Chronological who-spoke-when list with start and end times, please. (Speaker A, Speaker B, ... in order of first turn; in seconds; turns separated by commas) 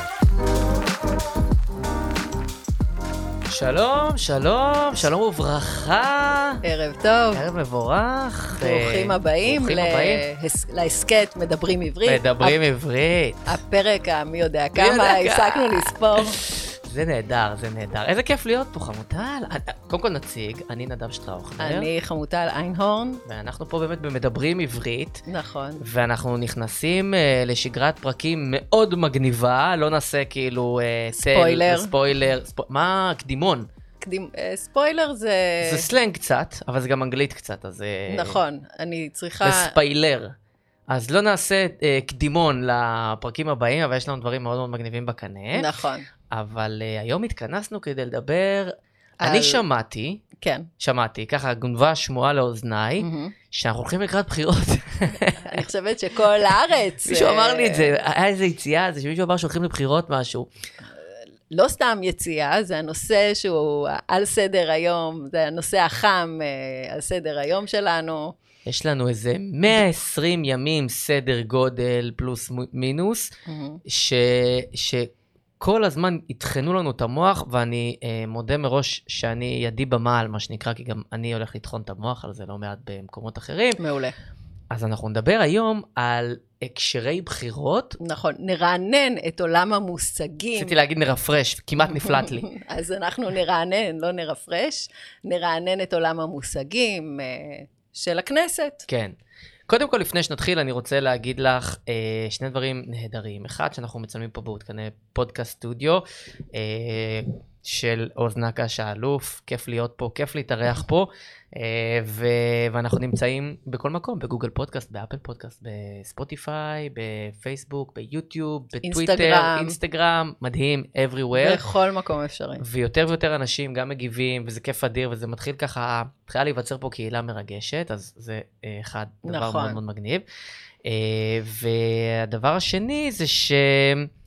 Speaker A: 3.5-6.6, Speaker B: 6.6-7.4, Speaker A: 7.3-10.2, Speaker B: 8.6-12.6, Speaker A: 12.1-13.6, Speaker B: 13.5-16.4, Speaker A: 14.8-21.9, Speaker B: 21.6-23.2, Speaker A: 23.3-25.2, Speaker B: 25.3-25.8, Speaker A: 25.8-33.7, Speaker B: 31.2-31.9, Speaker B: 34.0-35.8, Speaker A: 35.6-38.4, Speaker B: 38.1-39.8, Speaker A: 39.4-40.3, Speaker A: 40.9-45.7, Speaker B: 45.5-46.1, Speaker A: 46.3-50.2, Speaker B: 49.2-49.6, Speaker B: 50.4-50.7, Speaker A: 50.8-55.6, Speaker B: 53.0-53.4, Speaker B: 55.4-57.9, Speaker A: 57.0-60.5, Speaker B: 61.5-68.4, Speaker A: 68.7-73.3, Speaker B: 73.5-73.8, Speaker A: 73.9-83.8, Speaker B: 83.8-84.2, Speaker A: 84.7-88.0, Speaker B: 88.0-90.8, Speaker A: 90.6-92.5, Speaker B: 91.8-98.9, Speaker A: 98.9-99.2, Speaker A: 99.7-121.6, Speaker B: 118.8-119.8, Speaker B: 121.3-122.6, Speaker A: 122.6-130.2, Speaker B: 129.2-129.8, Speaker A: 130.8-134.1